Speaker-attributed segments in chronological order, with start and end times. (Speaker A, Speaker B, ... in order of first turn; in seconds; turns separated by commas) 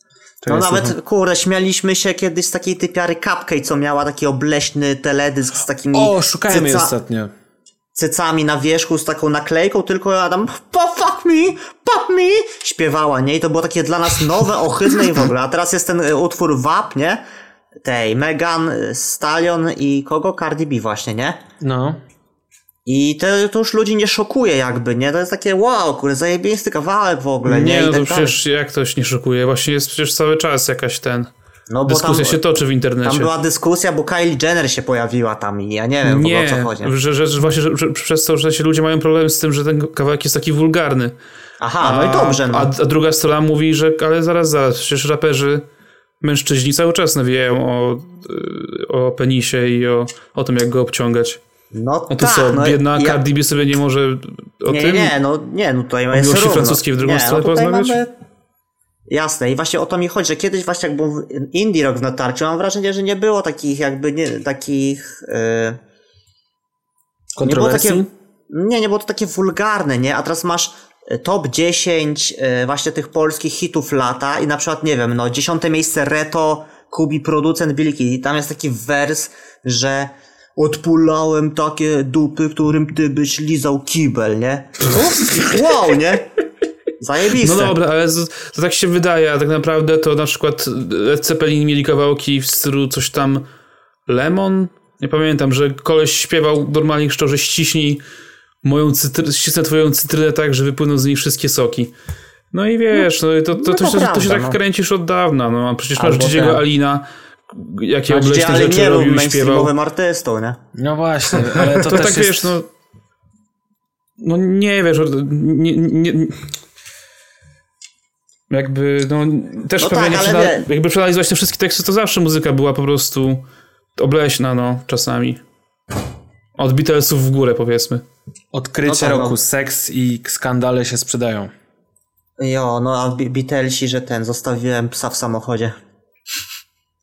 Speaker A: 0.4-0.9, Speaker B: 0.5-6.9, Speaker A: 5.9-7.3, Speaker B: 7.9-17.2, Speaker B: 17.8-21.4, Speaker A: 21.6-22.0, Speaker B: 22.9-28.4, Speaker C: 27.4-31.3, Speaker B: 31.7-32.4, Speaker C: 31.9-33.3, Speaker B: 33.0-36.9, Speaker C: 36.0-41.1, Speaker B: 41.6-42.7, Speaker C: 41.8-45.6, Speaker C: 46.2-51.4, Speaker B: 51.7-53.2, Speaker C: 52.1-55.1, Speaker B: 54.7-58.1, Speaker C: 56.1-58.0, Speaker B: 59.1-65.8, Speaker A: 67.3-68.1, Speaker B: 67.4-86.3, Speaker B: 87.0-87.7, Speaker C: 87.4-93.5, Speaker C: 94.1-98.0, Speaker C: 98.6-101.9, Speaker C: 102.5-109.7, Speaker B: 103.5-104.6, Speaker B: 106.0-106.6, Speaker B: 108.1-110.6, Speaker A: 110.7-112.5, Speaker C: 111.7-112.7, Speaker C: 114.2-116.5, Speaker C: 118.5-123.4, Speaker B: 119.8-120.7, Speaker C: 124.0-125.4, Speaker C: 126.5-128.0, Speaker A: 128.5-131.5, Speaker B: 128.8-129.4, Speaker B: 132.4-135.7